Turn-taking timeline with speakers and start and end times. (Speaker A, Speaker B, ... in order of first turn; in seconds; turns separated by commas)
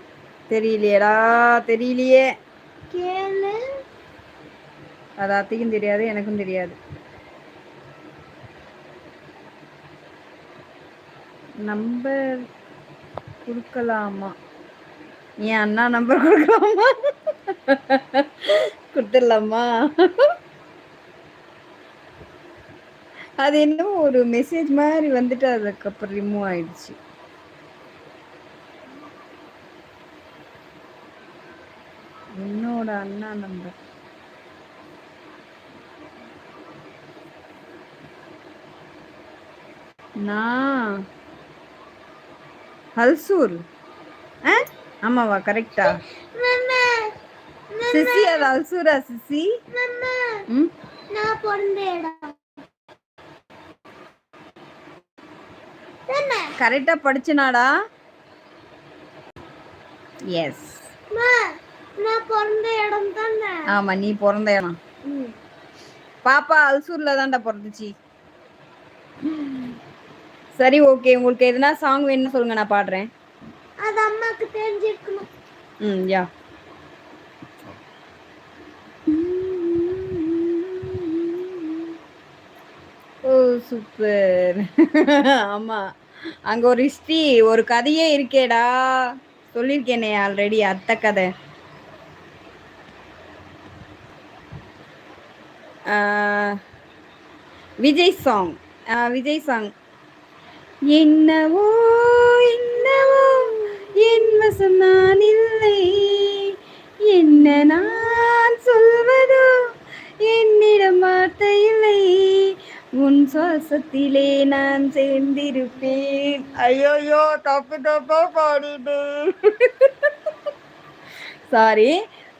Speaker A: 0.5-2.2, Speaker B: 2.9-3.6, Speaker A: 5.2-6.8, Speaker A: 11.6-12.1, Speaker A: 13.4-14.3, Speaker A: 15.4-20.3, Speaker A: 23.4-27.0, Speaker A: 32.4-33.7, Speaker A: 40.2-40.9, Speaker A: 43.0-43.6, Speaker A: 44.4-46.0, Speaker B: 45.8-47.1, Speaker B: 47.7-48.5, Speaker A: 47.9-49.5, Speaker B: 49.7-50.3, Speaker B: 51.1-52.4, Speaker B: 56.1-56.5, Speaker A: 56.6-57.7, Speaker A: 60.3-60.8, Speaker B: 61.1-61.4, Speaker B: 62.0-63.7, Speaker A: 63.7-64.7, Speaker B: 65.0-65.3, Speaker A: 66.2-67.9, Speaker A: 69.2-69.7, Speaker A: 70.6-73.1, Speaker B: 73.8-75.3, Speaker A: 75.8-76.3, Speaker A: 79.1-81.9, Speaker A: 83.2-85.8, Speaker A: 86.5-91.3, Speaker A: 95.9-96.6, Speaker A: 97.8-99.7, Speaker A: 100.9-106.5, Speaker A: 107.1-109.5, Speaker A: 110.2-120.3, Speaker A: 121.5-121.9